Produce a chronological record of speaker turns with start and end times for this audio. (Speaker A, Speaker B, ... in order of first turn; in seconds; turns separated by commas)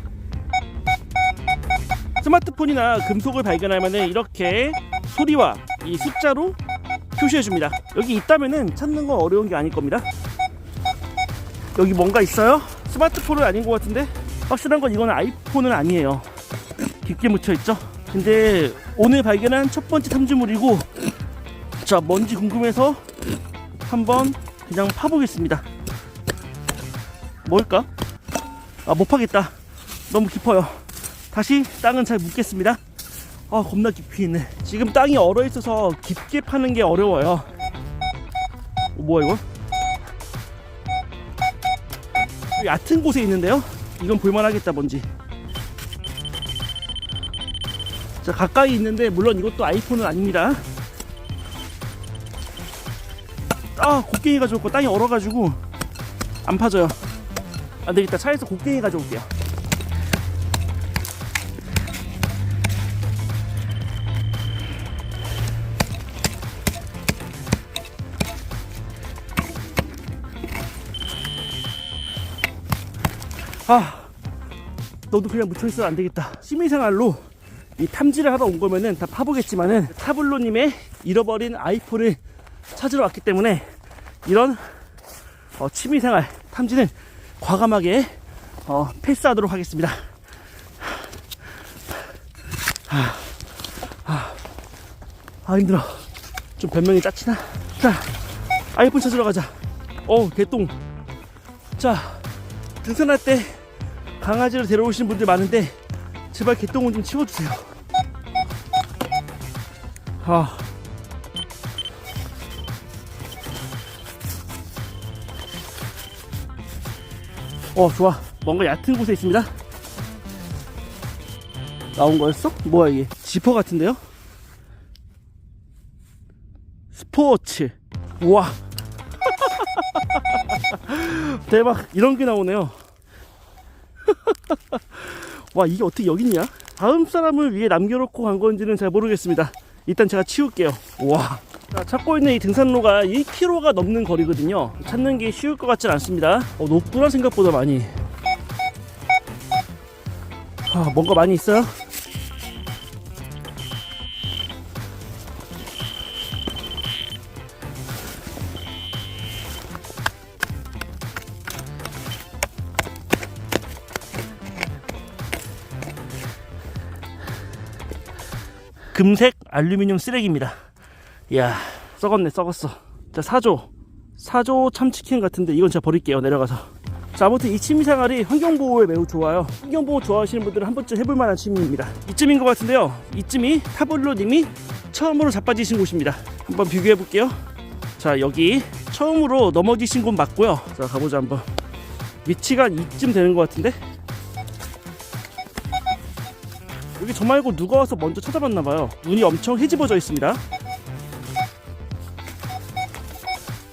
Speaker A: 2.2-6.6, Speaker A: 7.1-10.1, Speaker A: 11.8-16.3, Speaker A: 17.0-20.9, Speaker A: 21.8-23.1, Speaker A: 23.8-25.6, Speaker A: 27.4-27.9, Speaker A: 28.9-29.6, Speaker A: 30.1-32.8, Speaker A: 33.5-37.5, Speaker A: 38.9-39.4, Speaker A: 42.6-45.1, Speaker A: 48.2-50.6, Speaker A: 53.8-55.6, Speaker A: 56.4-57.0, Speaker A: 57.8-59.3, Speaker A: 73.7-74.1, Speaker A: 75.1-77.3, Speaker A: 77.8-82.2, Speaker A: 82.7-83.7, Speaker A: 84.2-84.8, Speaker A: 85.6-90.1, Speaker A: 92.9-94.4, Speaker A: 95.5-96.1, Speaker A: 96.6-98.2, Speaker A: 98.7-99.5, Speaker A: 100.1-100.8, Speaker A: 101.8-102.3, Speaker A: 102.8-103.6, Speaker A: 104.2-105.8, Speaker A: 106.3-107.7, Speaker A: 110.2-110.7, Speaker A: 117.7-119.5, Speaker A: 122.0-124.0, Speaker A: 126.9-128.6, Speaker A: 129.3-132.8, Speaker A: 134.1-148.0, Speaker A: 150.7-151.8, Speaker A: 168.9-170.6, Speaker A: 171.3-187.4, Speaker A: 188.0-191.5, Speaker A: 192.2-193.8, Speaker A: 197.0-200.4